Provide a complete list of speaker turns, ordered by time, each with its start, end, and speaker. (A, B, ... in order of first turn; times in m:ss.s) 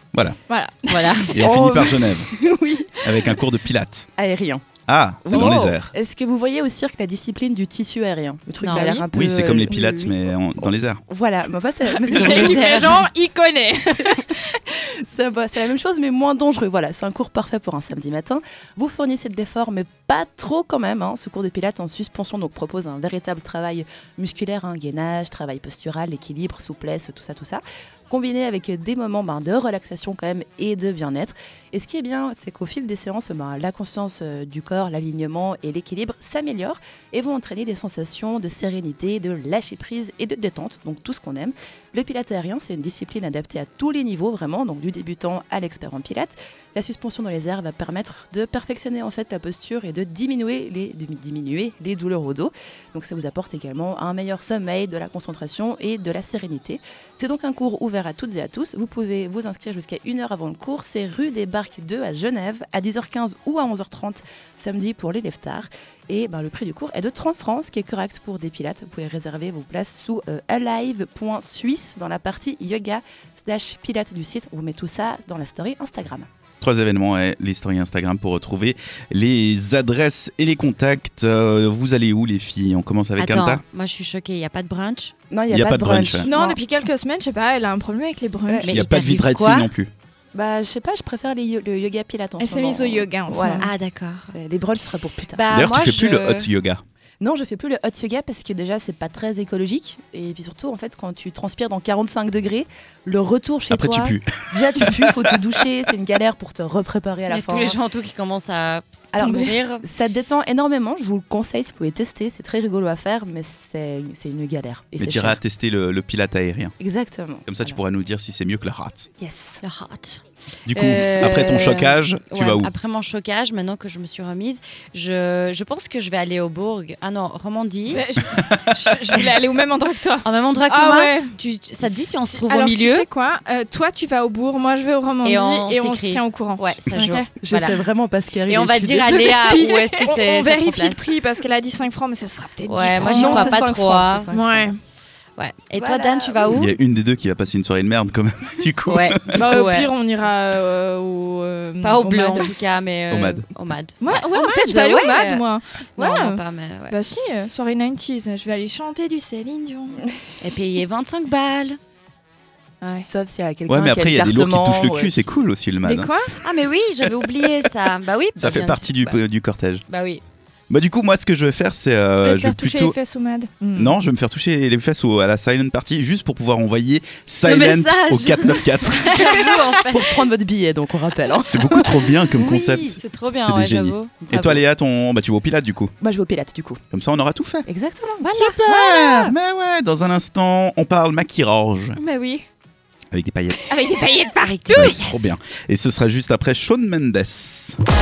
0:00.5-0:01.6 A
0:00.9-0:01.3 B
0:01.3-0:02.3 C
0:01.4-0:03.3 D
0:03.0-0:04.1 C
0:04.2-0:04.6 D
0:04.9-0:05.9 C
0:05.2-0:10.1 D
0:05.3-0:05.8 A
0:08.6-0:09.1 B
0:09.1-0:11.0 C
0:11.1-0:13.1 D
0:11.8-0:14.5 A
0:12.2-0:12.9 B
0:13.9-1:16.3 D
1:16.6-1:23.6 C
1:23.2-1:25.1 B
1:25.3-1:26.6 D
1:25.5-1:26.3 C
1:26.2-1:28.8 A
1:28.6-1:29.7 B
1:28.7-1:29.9 C
1:30.3-1:33.7 D
1:32.4-1:33.7 A
1:33.6-1:34.3 B
1:34.3-1:35.4 D
1:35.3-1:36.5 B
1:35.5-1:36.8 C
1:37.2-1:47.8 D
1:43.7-1:45.4 C
1:47.3-1:49.9 B
1:49.1-1:55.4 D
1:49.2-1:49.5 A
1:55.0-1:56.8 C
1:56.8-1:57.8 D
1:57.5-1:59.1 C
1:59.2-1:59.6 D
1:59.6-2:00.2 B
2:00.7-2:02.7 C
2:00.7-2:08.0 B
2:01.2-2:01.8 D
2:07.9-2:11.4 A
2:08.4-2:08.8 C
2:10.2-2:13.1 B
2:12.2-2:17.3 A
2:15.2-2:17.8 B
2:17.4-2:19.5 D
2:18.5-2:21.1 B
2:19.4-2:23.6 A
2:22.7-2:24.3 B
2:22.9-2:24.7 D
2:24.3-2:24.8 A
2:25.4-2:26.8 B
2:25.8-2:26.5 D
2:26.5-2:29.4 C
2:28.9-2:29.9 B
2:29.3-2:32.5 A
2:31.8-2:35.4 B
2:33.1-2:33.4 C
2:34.0-2:40.0 A
2:36.0-2:37.0 B
2:40.4-2:41.8 B
2:42.8-2:43.1 A
2:43.0-2:45.3 D
2:43.7-2:46.4 C
2:45.8-2:46.3 A
2:46.4-2:49.2 B
2:48.4-2:49.8 C
2:49.9-2:50.2 B
2:50.7-2:53.0 C
2:52.2-2:54.0 A
2:53.8-2:59.4 C
2:57.4-3:00.2 B
2:59.3-2:59.8 A
2:59.9-3:03.0 D
3:01.4-3:05.9 C
3:02.2-3:04.2 B
3:04.2-3:04.6 D
3:06.0-3:06.8 D
3:06.9-3:07.7 C
3:07.7-3:09.3 D
3:08.3-3:08.9 A
3:08.3-3:12.0 C
3:12.0-3:12.4 A
3:13.1-3:13.8 C
3:13.7-3:15.1 A
3:14.7-3:17.8 C